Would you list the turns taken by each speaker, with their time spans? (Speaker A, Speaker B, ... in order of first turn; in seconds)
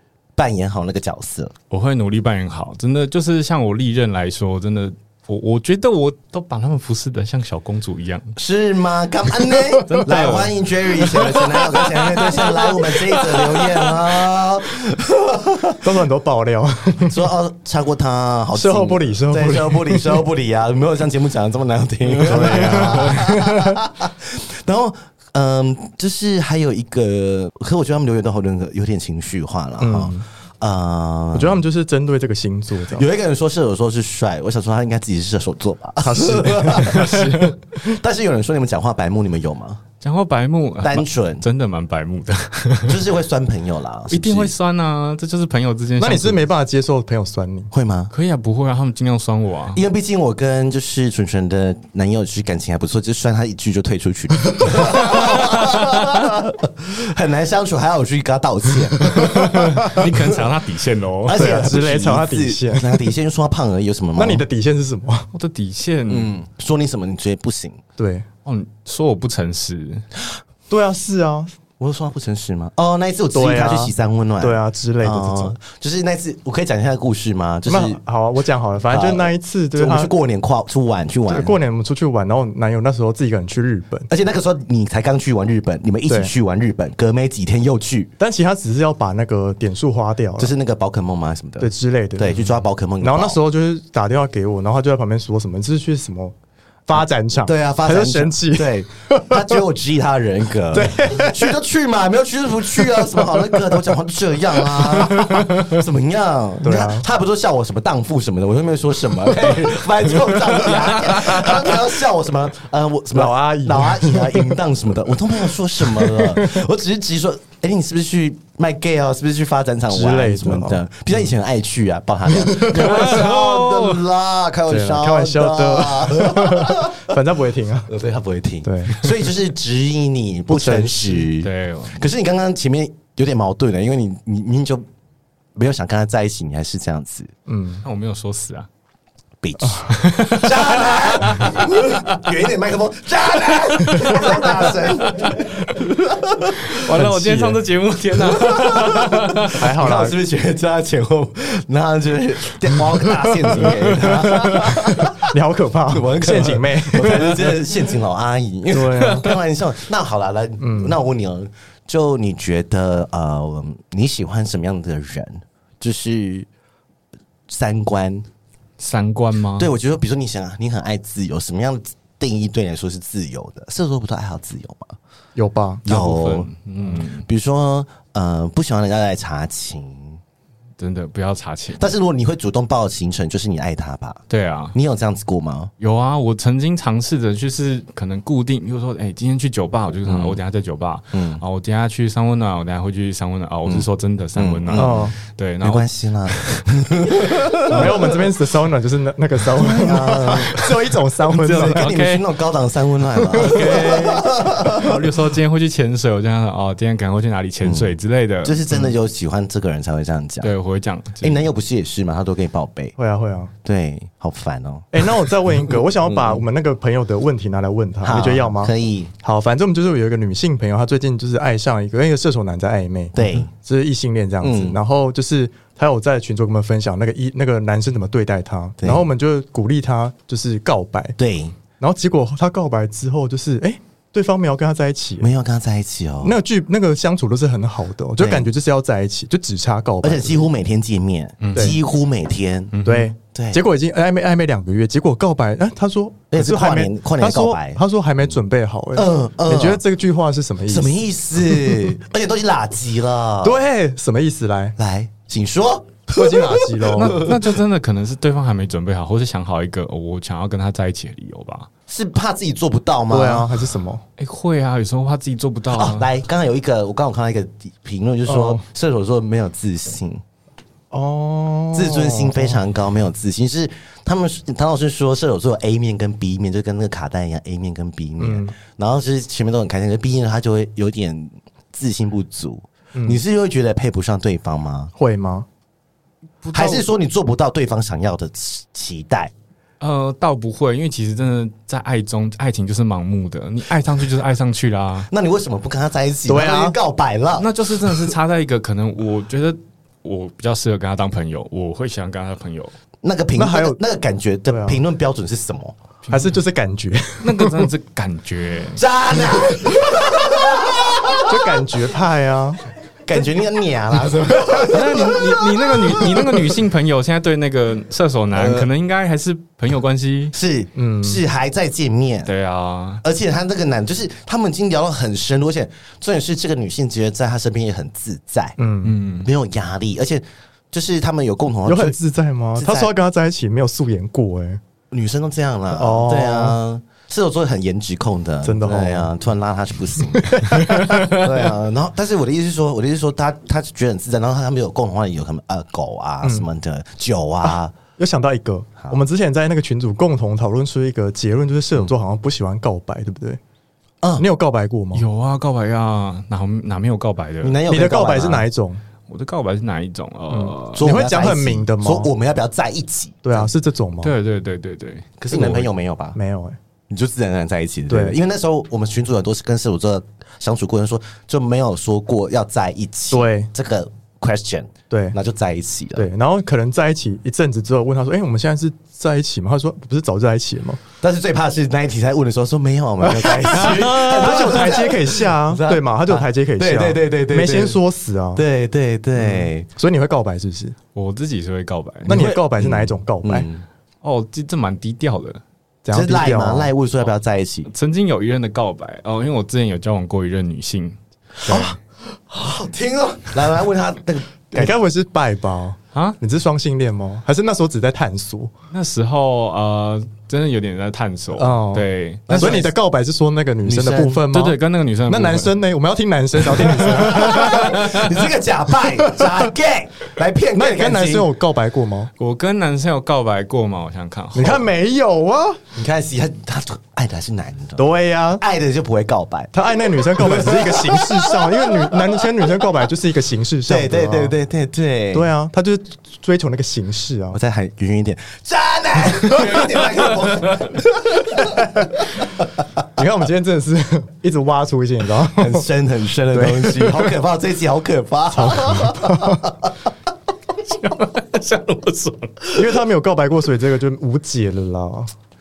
Speaker A: 0.4-1.5, 8.4-15.8, 17.1-31.6, 32.9-39.8, 40.8-41.5, 42.9-44.5, 47.7-48.1, 49.7-60.1, 61.2-64.5, 66.1-67.8, 71.8-78.0, 78.9-81.6, 84.1-88.1, 90.4-93.4, 97.4-127.1, 127.9-134.8, 135.6-137.3, 139.4-146.7, 148.2-155.3, 155.9-166.5, 167.5-168.3, 169.6-175.0, 175.8-180.2, 181.8-184.2, 184.7-185.7, 190.1-190.4, 191.1-191.4, 193.7-195.1, 195.6-198.1, 199.6-200.6, 201.5-205.0, 207.6-210.5, 211.2-212.9, 213.6-216.4, 218.0-219.1, 223.2-223.5, 224.4-224.8, 228.8-229.1, 231.2-231.6, 235.2-236.4, 238.2-238.5, 240.0-242.8, 243.3-243.6, 246.3-247.8, 248.9-249.8, 250.7-253.6, 254.8-257.4, 261.9-263.6, 265.7-270.2, 271.7-284.9, 286.5-289.3, 295.1-298.1, 303.0-305.8, 308.8-311.6, 313.1-316.5, 318.3-318.7, 320.3-322.3, 323.0-328.6, 329.2-332.0, 332.6-332.9, 334.9-347.8, 357.4-358.5, 360.7-363.5, 365.2-366.2, 366.9-376.1, 381.0-387.8, 388.4-389.7, 392.1-393.6, 395.9-397.7, 401.4-404.7, 412.3-412.7, 416.5-421.3, 425.8-427.8, 428.4-429.5, 430.1-432.3, 433.7-435.3, 437.3-442.6, 445.3-449.9
Speaker B: 1.7-8.3, 9.8-13.9, 22.2-23.1, 37.0-37.3, 40.0-43.1, 44.1-46.5, 48.1-49.8, 55.1-55.8, 59.6-61.4, 65.3-66.3, 68.5-70.1, 122.7-124.0, 131.4-132.1, 137.8-138.7, 139.9-142.3, 143.5-145.8, 146.6-149.6, 168.8-169.7, 175.9-177.2, 180.8-181.9, 184.3-184.8, 185.8-196.7, 197.3-197.9, 199.7-200.6, 201.3-202.2, 203.3-208.6, 210.4-211.4, 241.4-241.8, 242.7-243.1, 257.0-261.7, 264.2-266.1, 286.4-286.9, 289.8-295.1, 297.4-302.7, 306.1-306.3, 307.2-308.8, 314.6-320.3, 322.3-323.0, 328.8-329.3, 340.8-341.2, 354.9-357.6, 359.1-360.9, 364.0-365.2, 383.7-384.0, 390.9-392.3, 394.0-395.4, 397.7-401.7, 408.7-412.6, 413.7-415.6, 416.8-418.2, 422.2-424.6, 450.5-452.5
Speaker C: 15.8-17.2, 18.5-20.2, 22.2-23.8, 29.8-30.2, 31.3-33.1, 36.0-37.8, 46.0-47.7, 59.0-60.1, 61.3-63.1, 64.2-65.3, 68.0-68.3, 70.7-71.5, 73.3-75.6, 77.7-80.1, 81.3-84.1, 88.2-90.5, 91.6-96.3, 96.9-99.6, 100.7-101.6, 102.8-103.9, 104.5-105.8, 106.6-107.1, 113.1-114.5, 116.0-116.6, 119.9-120.8, 122.3-123.4, 124.7-127.9, 128.6-129.1, 130.5-131.3, 137.5-137.8, 146.9-147.6, 149.6-150.2, 153.6-154.7, 155.3-157.3, 158.7-159.3, 160.6-161.0, 175.4-175.8, 194.8-195.2, 197.7-201.9, 203.4-203.9, 213.0-213.5, 214.9-231.2, 231.8-235.3, 236.2-240.4, 242.8-251.9, 253.4-254.8, 256.1-257.4, 263.1-264.0, 268.3-268.6, 270.9-272.6, 278.2-278.6, 282.9-283.2, 285.0-285.5, 296.3-296.8, 303.4-303.8, 304.5-304.8, 306.1-307.7, 311.3-312.6, 320.8-321.2, 328.6-328.9, 331.7-334.6, 335.7-336.6, 338.4-339.1, 340.0-341.2, 346.2-346.5, 347.4-353.4, 354.2-355.1, 357.7-358.8, 360.3-362.1, 363.2-364.1, 365.3-366.6, 367.9-368.2, 373.1-373.5, 374.9-375.2, 376.0-380.8, 383.0-388.4, 389.2-390.8, 392.1-393.5, 395.9-396.7, 404.5-408.5, 411.4-417.8, 419.0-419.4, 420.6-422.1, 424.4-425.6, 427.8-428.4, 429.5-434.4, 435.1-437.4, 441.4-442.0, 442.9-445.7, 446.3-447.1, 448.3-449.5, 452.5-455.1